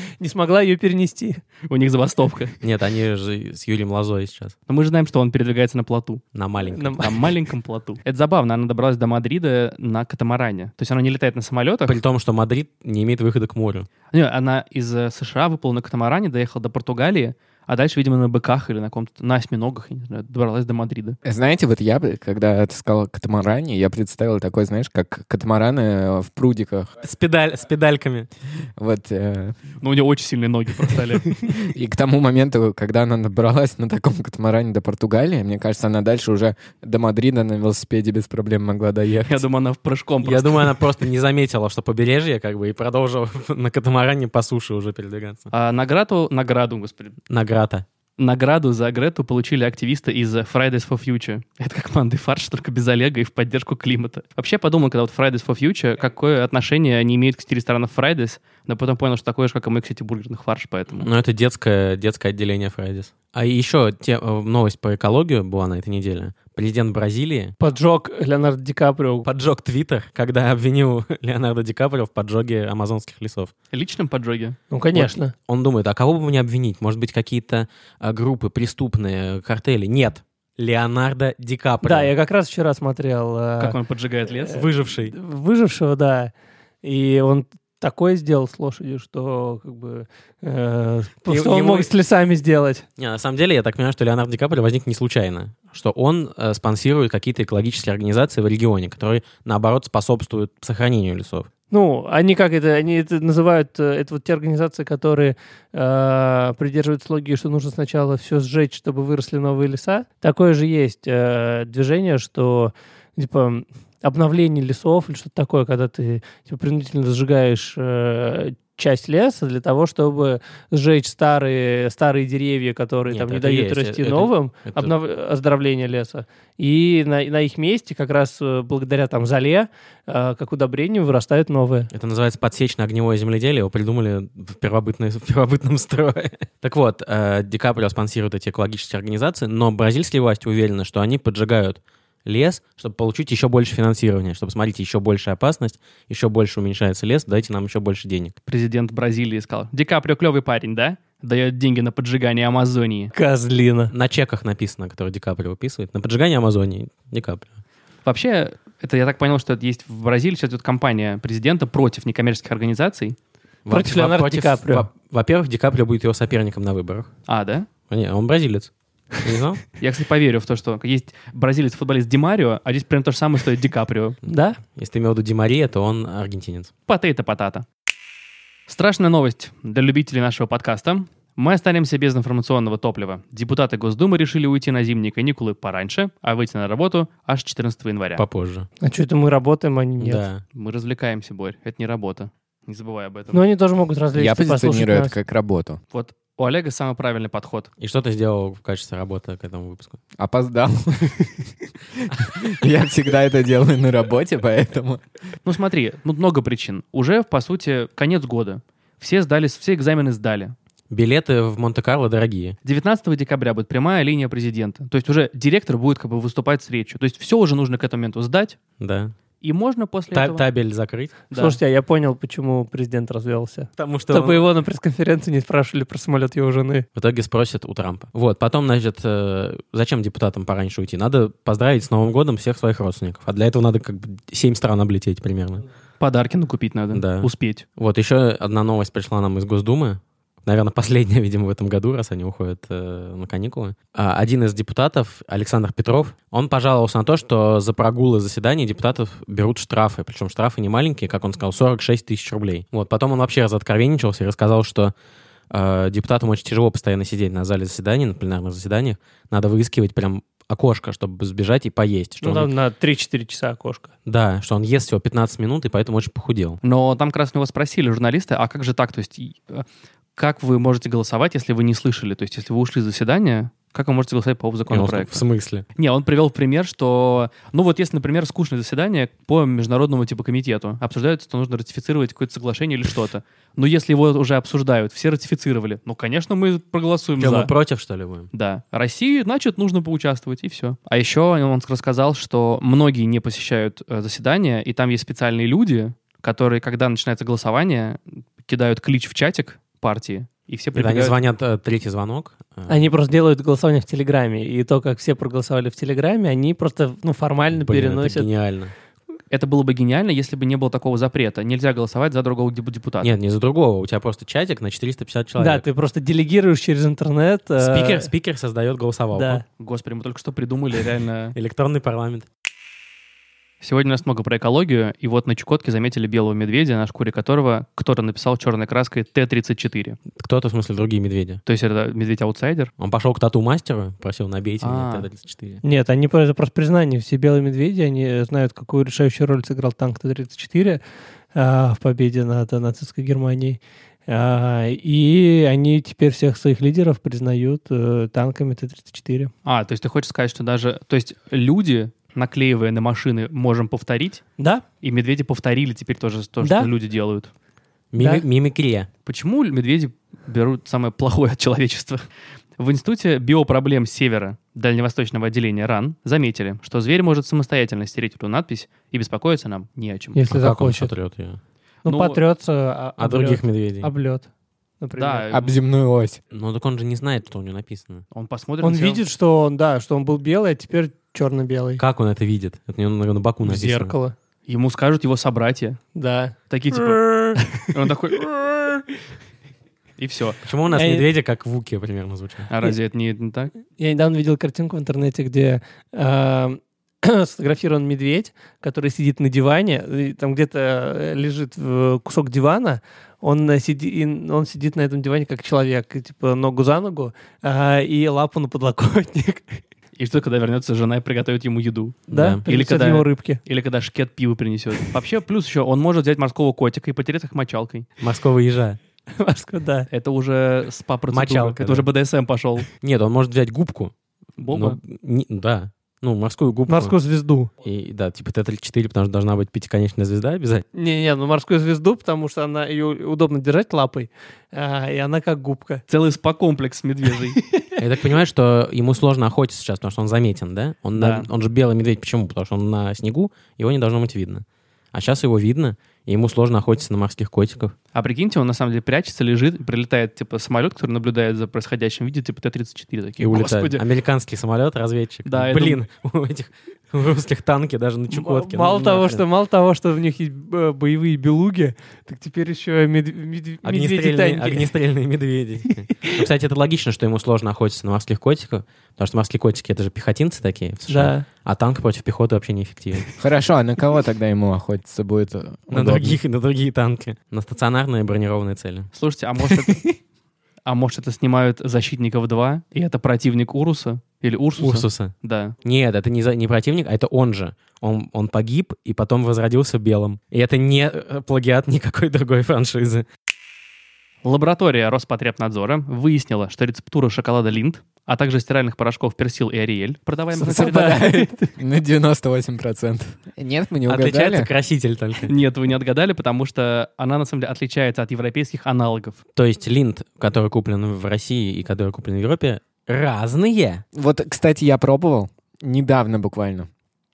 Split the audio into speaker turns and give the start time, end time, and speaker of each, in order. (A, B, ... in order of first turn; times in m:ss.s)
0:00.2-0:01.4 A
0:01.7-0:02.5 B
0:02.6-0:04.6 C
0:04.7-0:06.3 B
0:06.4-0:07.3 C
0:06.6-0:07.1 A
0:07.0-0:12.0 B
0:11.9-0:13.9 C
0:14.1-0:21.2 B
0:21.2-0:26.9 D
0:27.0-0:28.3 C
0:28.8-0:29.6 D
0:29.8-0:31.4 B
0:31.5-0:39.4 D
0:39.3-0:40.9 B
0:40.2-0:45.5 C
0:45.5-0:47.2 B
0:47.3-0:47.8 C
0:48.2-1:01.1 B
1:01.0-1:07.5 C
1:07.6-1:09.3 A
1:09.3-1:13.5 C
1:13.7-1:14.6 B
1:14.7-1:15.3 A
1:14.9-1:22.1 C
1:21.8-1:23.8 A
1:23.6-1:24.6 B
1:24.5-1:25.1 C
1:24.5-1:26.3 A
1:26.8-1:32.9 A
1:31.3-1:31.9 C
1:33.0-1:41.5 C
1:41.7-2:11.9 A
2:03.1-2:04.9 C
2:11.9-2:28.3 C
2:28.5-2:33.1 B
2:33.1-2:33.9 A
2:33.9-2:37.5 C
2:38.0-2:43.2 B
2:43.7-2:47.1 C
2:43.7-2:44.9 A
2:47.3-2:47.7 B
2:47.9-2:49.6 C
2:49.8-2:54.2 B
2:54.3-2:54.6 A
2:54.6-2:56.7 C
2:56.9-2:57.7 B
2:58.7-3:08.2 B
3:08.2-3:08.7 C
3:08.8-3:10.2 A
3:10.0-3:10.4 C
3:10.6-3:13.4 B
3:13.3-3:15.1 A
3:14.1-3:15.8 D
3:15.9-3:17.7 B
3:17.8-3:20.0 C
3:20.2-3:21.5 D
3:22.0-3:25.0 D
3:25.4-3:30.6 B
3:30.9-3:32.6 C
3:32.6-3:38.6 B
3:38.8-3:39.1 C
3:39.4-3:40.5 B
3:40.1-3:41.2 C
3:41.3-3:41.6 B
3:41.3-3:46.9 A
3:43.8-3:44.5 C
3:47.0-3:55.6 C
3:56.0-3:57.7 B
3:56.9-4:14.9 C
4:15.5-4:22.5 C
4:22.2-4:23.9 A
4:24.1-4:26.6 C
4:26.6-4:29.6 B
4:30.2-4:35.2 B
4:34.7-4:35.6 C
4:35.8-4:47.5 B
4:47.2-4:48.3 C
4:48.3-5:01.2 B
5:00.8-5:02.8 C
5:02.7-5:08.3 A
5:07.6-5:08.7 C
5:09.3-5:13.1 B
5:13.0-5:15.6 C
5:15.4-5:18.1 A
5:17.6-5:19.4 C
5:19.1-5:19.4 A
5:19.6-5:21.4 B
5:21.4-5:22.3 C
5:23.6-5:30.0 B
5:30.2-5:31.4 C
5:31.5-5:32.7 B
5:32.8-5:35.6 C
5:34.6-5:35.1 B
5:35.6-5:40.8 A
5:41.4-5:49.3 A
5:49.4-5:54.2 B
5:54.4-5:54.6 A
5:54.8-5:57.3 B
5:56.4-5:56.7 A
5:57.9-5:58.9 C
5:58.0-5:58.3 A
5:59.1-6:02.1 B
6:02.6-6:10.2 B
6:10.1-6:10.9 A
6:10.3-6:11.4 C
6:11.8-6:14.3 A
6:11.9-6:12.2 B
6:13.0-6:13.9 C
6:14.8-6:15.3 A
6:15.0-6:15.5 B
6:15.3-6:16.2 D
6:16.3-6:18.0 C
6:18.1-6:19.0 B
6:18.6-6:21.8 A
6:21.8-6:23.9 C
6:23.4-6:24.1 A
6:24.5-6:25.8 B
6:26.0-6:27.7 A
6:26.5-6:28.8 B
6:30.0-6:30.4 B
6:30.5-6:32.5 C
6:30.7-6:31.1 A
6:32.5-6:33.5 B
6:33.8-6:49.6 A
6:50.0-6:57.9 B
6:52.1-6:52.4 C
6:52.1-6:53.4 A
6:58.0-6:58.8 C
6:59.2-6:59.9 A
6:59.9-7:02.7 B
7:01.1-7:01.9 C
7:02.8-7:03.9 C
7:04.4-7:04.8 B
7:04.5-7:07.0 C
7:06.7-7:07.5 A
7:07.6-7:10.7 C
7:10.7-7:15.8 A
7:15.9-7:17.4 B
7:17.5-7:17.8 A
7:17.8-7:27.7 C
7:21.0-7:21.3 B
7:27.9-7:33.8 B
7:33.2-7:39.2 C
7:35.3-7:35.8 B
7:38.1-7:44.7 A
7:43.6-7:53.1 C
7:50.9-7:51.3 A
7:53.2-7:56.2 D
7:55.7-7:58.9 C
7:58.9-8:00.0 B
8:00.7-8:05.6 B
8:04.6-8:05.1 C
8:05.6-8:13.1 C
8:14.2-8:21.0 B
8:20.4-8:21.5 A
8:20.4-8:24.5 D
8:23.9-8:25.3 C
8:25.3-8:29.2 B
8:29.4-8:33.8 C
8:33.9-8:36.7 D